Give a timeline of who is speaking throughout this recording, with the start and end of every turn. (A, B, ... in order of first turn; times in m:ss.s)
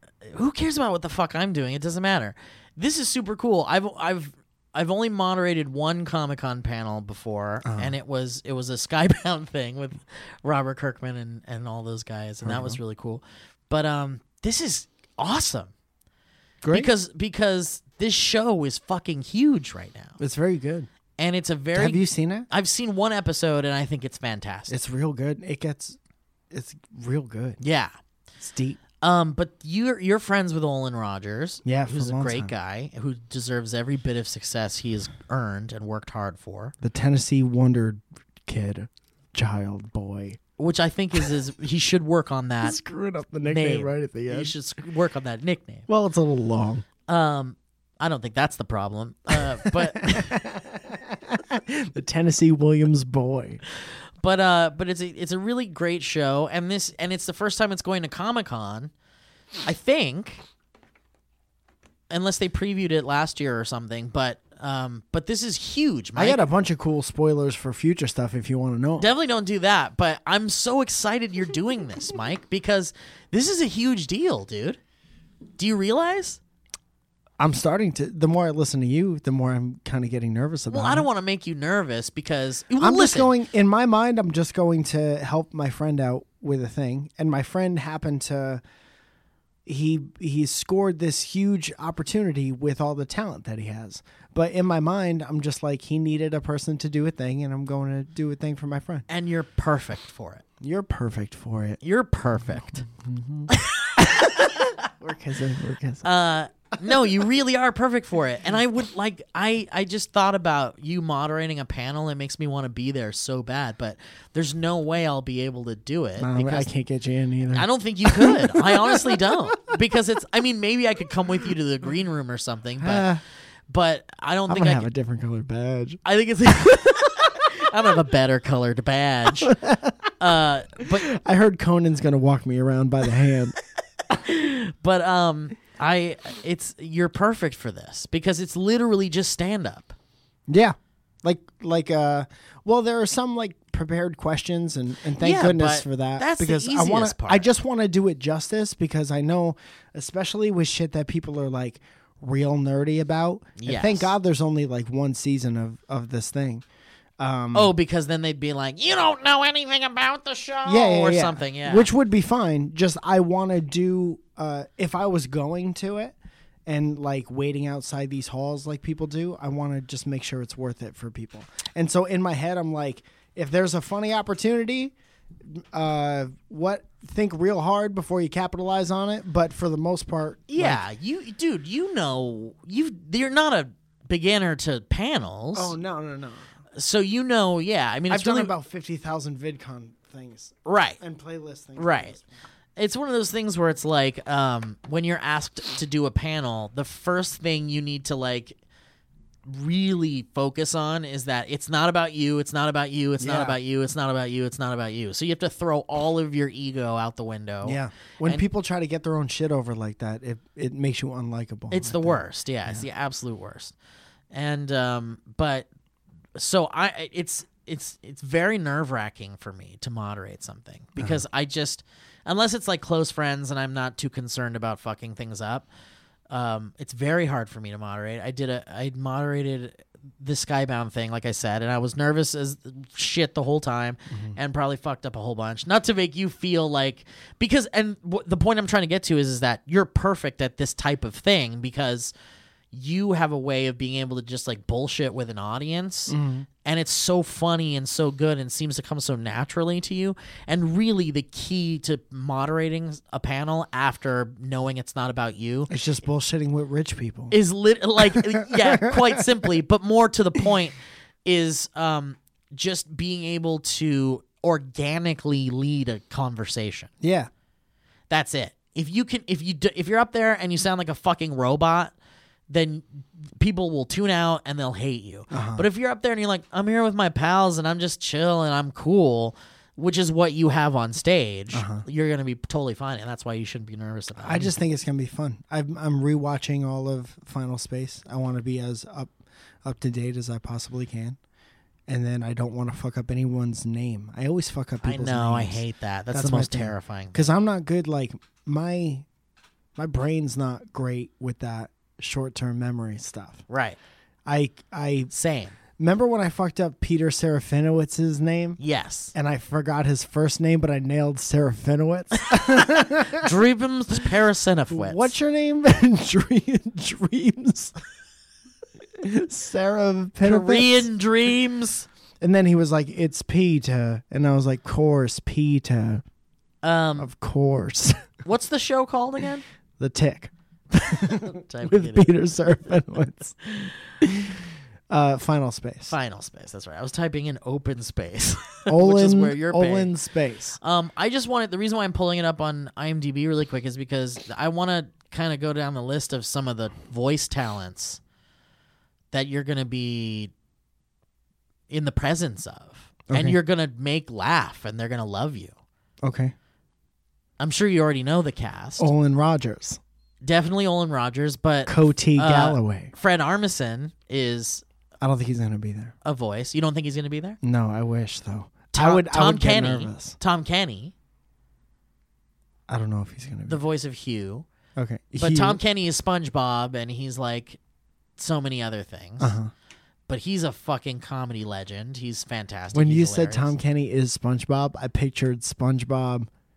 0:00.2-0:15.7 A
0:07.6-0:07.9 B
0:12.4-0:12.8 B
0:16.6-0:16.9 B
0:16.7-0:20.2 A
0:20.2-0:20.9 B
0:21.2-0:24.7 A
0:21.7-0:22.5 B
0:24.7-0:26.0 B
0:26.5-0:27.6 B
0:27.6-0:27.9 A
0:28.4-0:28.8 B
0:29.0-0:36.7 A
0:31.6-0:32.5 B
0:36.8-0:40.4 B
0:40.6-0:42.8 A
0:42.6-0:44.5 B
0:43.4-0:45.9 A
0:45.9-0:46.8 B
0:47.1-0:50.4 A
0:49.6-0:53.6 B
0:54.2-0:58.9 A
0:59.6-1:00.4 A
1:02.1-1:06.4 A
1:06.2-1:09.1 B
1:09.0-1:14.8 A
1:15.6-1:16.4 A
1:17.4-1:21.1 B
1:20.7-1:23.3 A
1:22.8-1:28.6 B
1:29.6-1:39.0 B
1:39.1-1:40.4 A
1:40.6-1:41.8 B
1:41.8-1:42.8 A
1:42.5-1:46.1 B
1:43.5-1:44.7 A
1:46.0-1:56.7 A
1:56.2-1:59.3 B
1:57.5-2:03.1 A
2:02.8-2:03.2 B
2:03.7-2:04.9 A
2:04.5-2:06.0 B
2:06.0-2:09.6 A
2:09.4-2:10.1 B
2:10.2-2:11.1 A
2:11.0-2:13.6 B
2:14.1-2:19.9 A
2:20.5-2:36.6 B
2:25.2-2:27.4 A
2:33.6-2:34.1 A
2:37.2-2:37.7 B
2:37.5-2:41.9 A
2:40.6-3:00.8 B
3:00.5-3:05.7 A
3:05.5-3:06.5 B
3:06.7-3:08.5 A
3:08.1-3:12.3 B
3:10.6-3:11.0 A
3:11.8-3:12.2 A
3:12.8-3:18.6 A
3:19.4-3:28.4 A
3:23.2-3:23.6 B
3:27.6-3:32.8 B
3:31.7-3:33.7 A
3:34.3-3:35.7 A
3:36.4-3:45.7 A
3:46.3-4:02.1 A
3:54.1-3:54.4 B
4:02.7-4:15.7 A
4:06.1-4:06.5 B
4:15.7-4:17.3 B
4:17.3-4:26.9 A
4:18.0-4:19.2 B
4:27.0-4:27.3 B
4:28.1-4:31.9 A
4:32.5-4:44.5 A
4:35.3-4:35.6 B
4:41.5-4:41.8 B
4:44.2-4:49.1 B
4:49.6-4:51.2 B
4:51.9-4:59.0 B
4:54.8-4:57.3 A
4:59.8-5:03.4 B
5:03.5-5:03.8 A
5:04.2-5:05.1 B
5:05.1-5:05.5 A
5:05.8-5:08.6 B
5:08.6-5:09.1 A
5:09.1-5:13.3 B
5:12.2-5:15.1 A
5:14.7-5:17.7 B
5:19.0-5:20.9 B
5:20.2-5:21.9 A
5:22.2-5:26.0 B
5:26.6-5:27.1 A
5:27.0-5:28.1 B
5:28.2-5:29.4 A
5:29.8-5:35.9 B
5:31.1-5:32.1 A
5:35.9-5:39.9 A
5:38.7-5:40.6 B
5:40.6-5:48.0 A
5:49.1-5:50.3 A
5:51.7-5:55.5 A
5:53.1-5:53.4 B
5:56.0-5:56.3 B
5:57.4-5:58.9 A
5:58.8-5:59.8 B
6:00.2-6:04.6 A
6:01.6-6:02.9 B
6:05.0-6:05.9 B
6:06.0-6:07.4 A
6:07.4-6:10.2 B
6:08.7-6:10.9 A
6:12.7-6:13.6 B
6:13.5-6:14.4 A
6:14.8-6:15.6 B
6:15.2-6:17.6 A
6:18.2-6:19.4 A
6:19.2-6:19.5 B
6:20.1-6:23.5 A
6:22.7-6:26.3 B